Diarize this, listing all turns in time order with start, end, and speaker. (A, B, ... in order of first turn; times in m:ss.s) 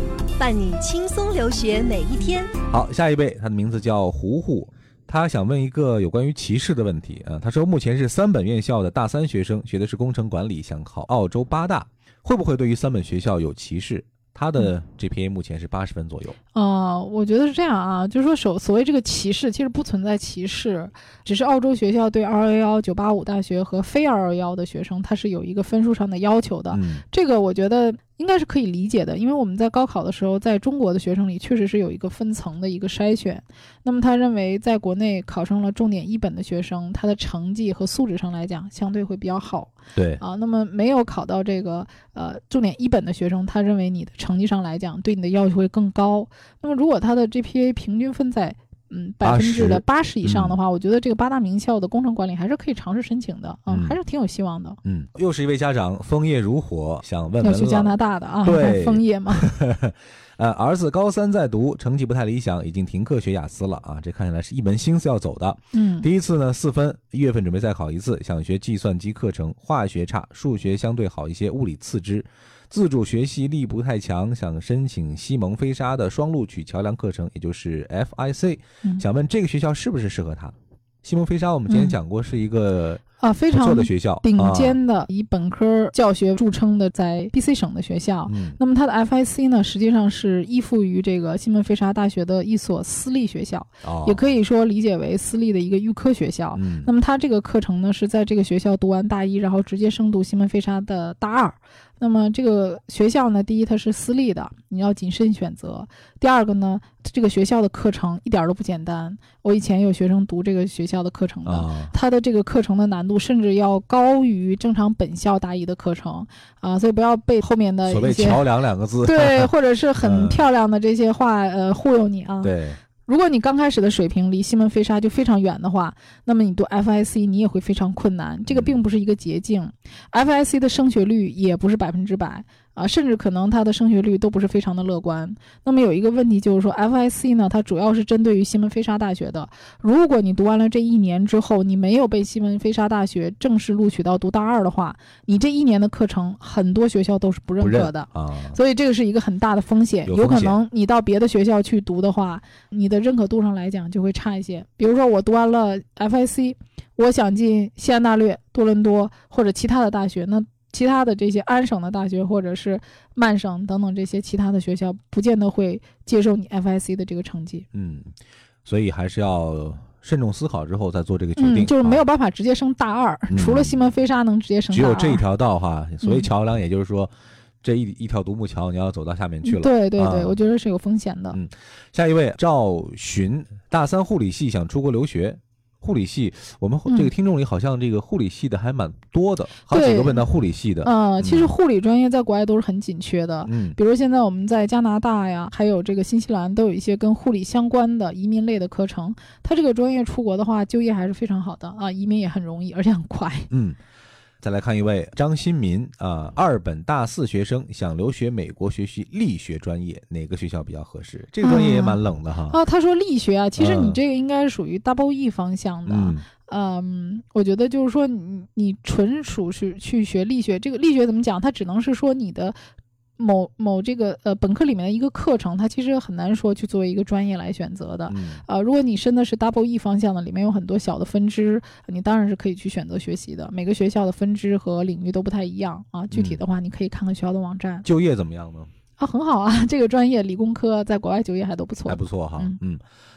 0:00.4-0:02.5 A
0:02.7-0:16.4 B
0:16.5-0:54.8 C
0:26.7-0:27.0 B
0:40.0-0:40.2 B
0:49.2-0:50.6 B
0:53.7-0:54.0 B
0:54.8-1:24.8 B
0:57.4-0:59.5 C
1:05.7-1:06.1 C
1:21.7-1:22.0 C
1:23.2-1:58.4 C
1:28.3-1:28.6 B
1:33.8-1:34.3 B
1:36.5-1:36.9 B
1:51.4-1:51.9 B
1:57.8-2:00.4 B
1:59.0-2:02.5 C
2:02.4-2:02.8 B
2:03.0-2:47.6 C
2:08.5-2:08.8 B
2:27.6-2:28.6 B
2:30.0-2:30.6 B
2:47.7-2:48.1 B
2:48.6-2:52.0 B
2:51.4-2:55.2 C
2:53.3-2:53.9 B
2:54.7-2:57.1 B
2:56.0-2:56.3 C
2:57.6-3:00.4 B
2:59.4-3:01.4 C
3:01.3-3:11.5 B
3:09.7-3:10.2 C
3:10.8-3:23.5 C
3:13.4-3:13.8 B
3:23.5-3:23.8 B
3:24.4-3:32.6 B
3:31.4-3:42.6 C
3:33.6-3:34.0 B
3:35.9-3:36.2 B
3:43.2-3:57.8 C
3:48.1-3:48.4 B
3:56.1-3:56.4 B
3:57.8-3:58.7 B
3:59.0-4:02.6 C
4:01.8-4:02.8 B